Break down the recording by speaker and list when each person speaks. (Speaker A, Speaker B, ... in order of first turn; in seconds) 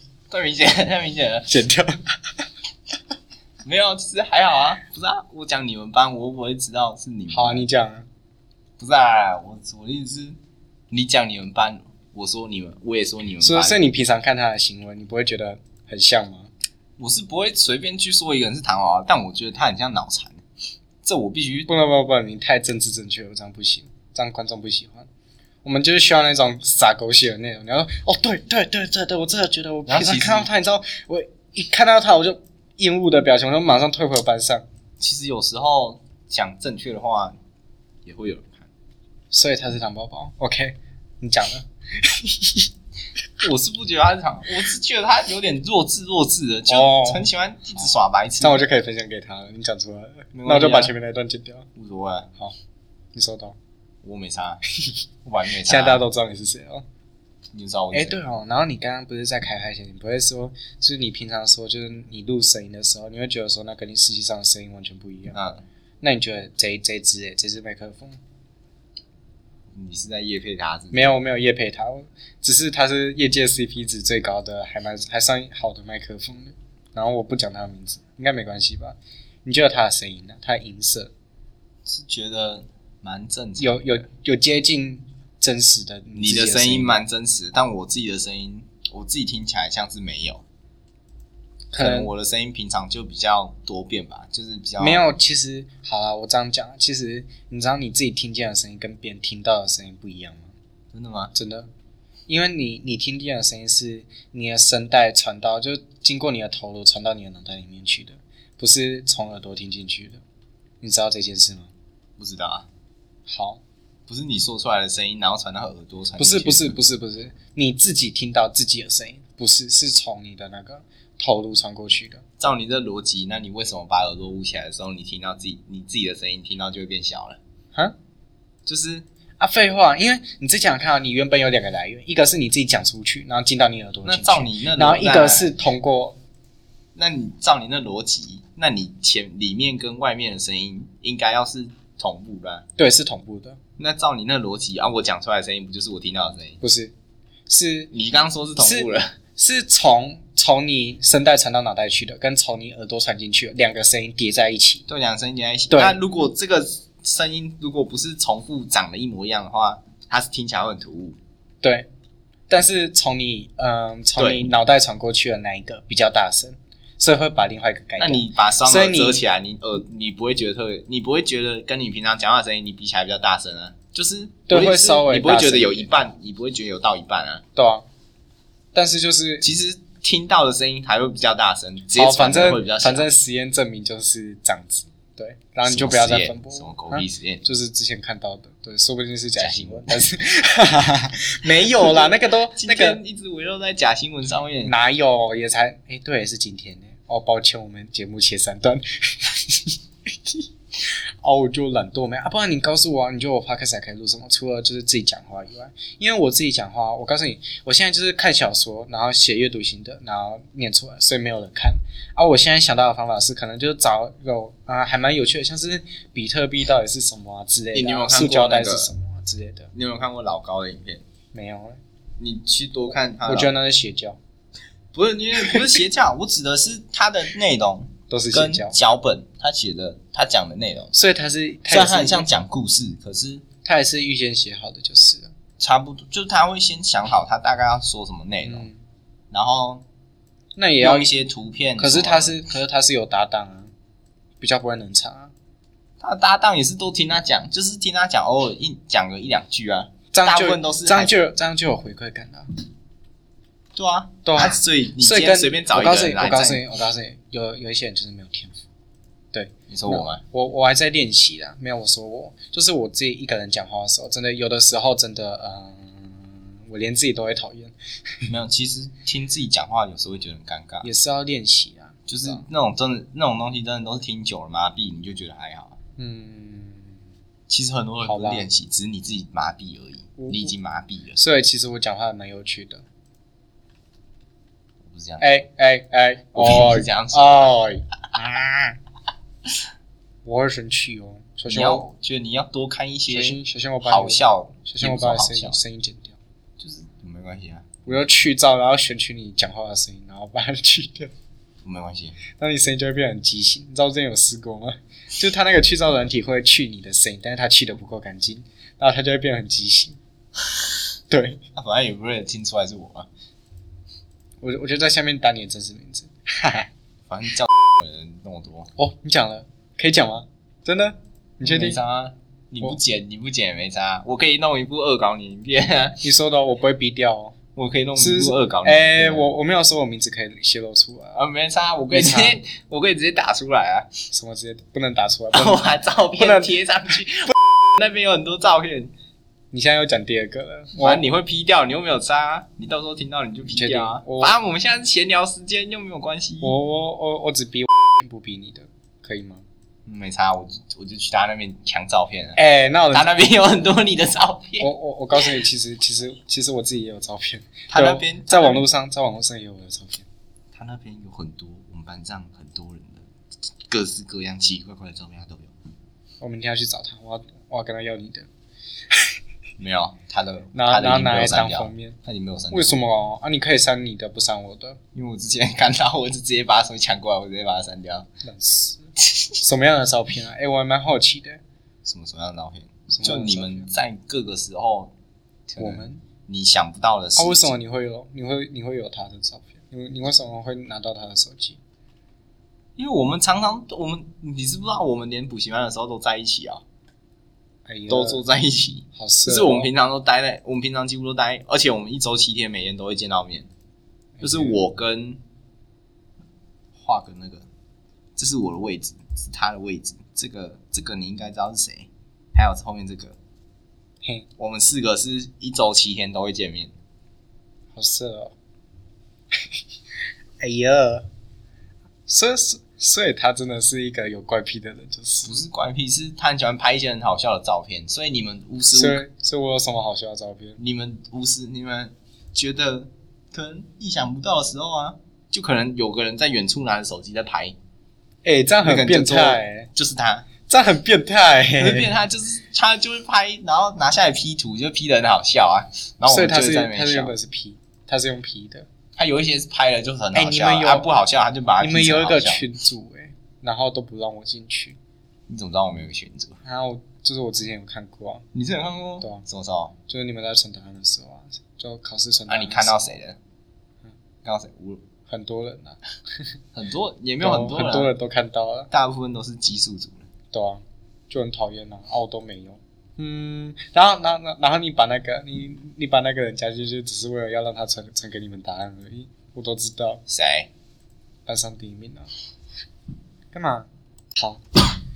Speaker A: 0.3-1.5, 3.6-7.7, 8.8-10.4, 10.9-13.8, 17.0-20.4, 21.0-21.7, 29.9-30.5, 35.0-37.4, 38.0-38.7, 43.4-48.7, 50.3-50.9, 51.8-52.3, 54.0-54.6, 55.2-56.0, 57.5-58.2, 65.3-65.6, 69.7-71.2, 81.9-84.0, 86.1-90.4, 91.8-95.1, 100.9-101.3, 112.2-112.7, 114.1-116.8, 122.4-127.4, 128.7-129.1, 134.1-135.5, 136.9-142.7, 143.8-146.6, 147.9-149.2, 154.9-161.2, 164.2-164.4, 168.0-177.4, 179.4-183.1, 185.6-187.4, 189.4-190.1, 191.6-194.7, 217.7-218.9, 219.7-221.0, 222.2-223.5, 224.9-230.9, 231.7-233.4, 235.6-238.7, 239.3-239.8, 240.8-242.4, 246.0-251.1, 253.8-256.6, 259.7-260.2, 268.3-270.9, 272.1-275.8, 277.5-281.2, 284.8-285.4, 286.4-287.6, 291.5-295.6, 296.6-297.7, 301.6-302.2, 311.6-313.1, 317.1-318.7, 321.4-326.1, 327.6-329.3, 331.1-333.9, 335.3-338.9, 340.8-346.5, 349.9-352.4, 352.9-354.7, 357.7-358.6, 360.5-363.1, 363.7-365.5, 369.6-372.8, 374.9-378.1, 381.9-384.9, 385.5-387.5, 392.8-396.6, 397.9-403.5, 404.2-405.2, 406.8-407.5, 408.2-413.2, 414.4-416.7, 425.2-429.0, 430.6-437.6, 438.6-440.3, 441.6-447.1, 449.0-452.4, 455.3-456.4, 458.3-459.7, 462.3-463.2, 464.2-464.8, 466.5-467.9, 468.7-470.1, 480.1-480.5
Speaker B: 1.5-2.4, 7.3-8.1, 13.4-16.5, 21.7-25.1, 25.6-34.6, 39.3-42.7, 46.7-47.3, 48.4-51.7, 53.1-53.6, 55.5-56.9, 57.9-65.4, 66.0-68.2, 70.9-81.1, 83.6-87.0, 91.7-92.1, 94.8-100.5, 101.3-101.7, 102.3-110.2, 110.8-111.7, 113.3-113.6, 116.2-122.2, 129.4-136.2, 142.8-143.6, 146.6-146.9, 147.5-147.9, 148.6-154.9, 155.7-156.0, 161.6-161.9, 162.5-169.2, 174.5-176.0, 177.6-177.9, 178.7-179.5, 181.9-193.0, 194.6-219.7, 221.3-221.8, 223.2-224.2, 228.1-228.8, 230.9-232.3, 233.6-235.3, 238.4-238.8, 240.6-241.1, 241.8-243.7, 244.4-245.3, 250.1-252.5, 254.2-258.6, 259.3-268.2, 270.8-272.4, 276.0-277.0, 278.0-278.5, 280.2-280.5, 281.2-282.9, 285.2-288.8, 290.2-291.9, 293.1-296.2, 297.9-301.1, 302.3-310.0, 311.1-311.4, 314.4-316.7, 318.8-321.8, 326.0-327.4, 328.0-331.2, 331.9-332.4, 334.1-336.5, 339.5-341.0, 343.5-344.4, 346.4-349.4, 352.4-353.1, 354.6-360.1, 366.2-368.3, 368.9-369.2, 370.5-372.0, 372.5-374.8, 378.2-378.9, 379.4-381.4, 382.9-383.7, 385.6-386.0, 387.2-391.6, 397.6-398.2, 398.9-399.7, 404.2-404.6, 417.7-418.4, 419.4-419.6, 420.4-421.1, 422.1-425.5, 428.7-430.6, 438.2-439.7, 440.5-441.9, 446.1-448.7, 450.1-450.9, 451.6-454.8, 456.4-458.2, 459.9-462.9, 465.1-465.8, 467.2-468.7, 470.3-480.0, 481.3-482.1, 483.3-484.6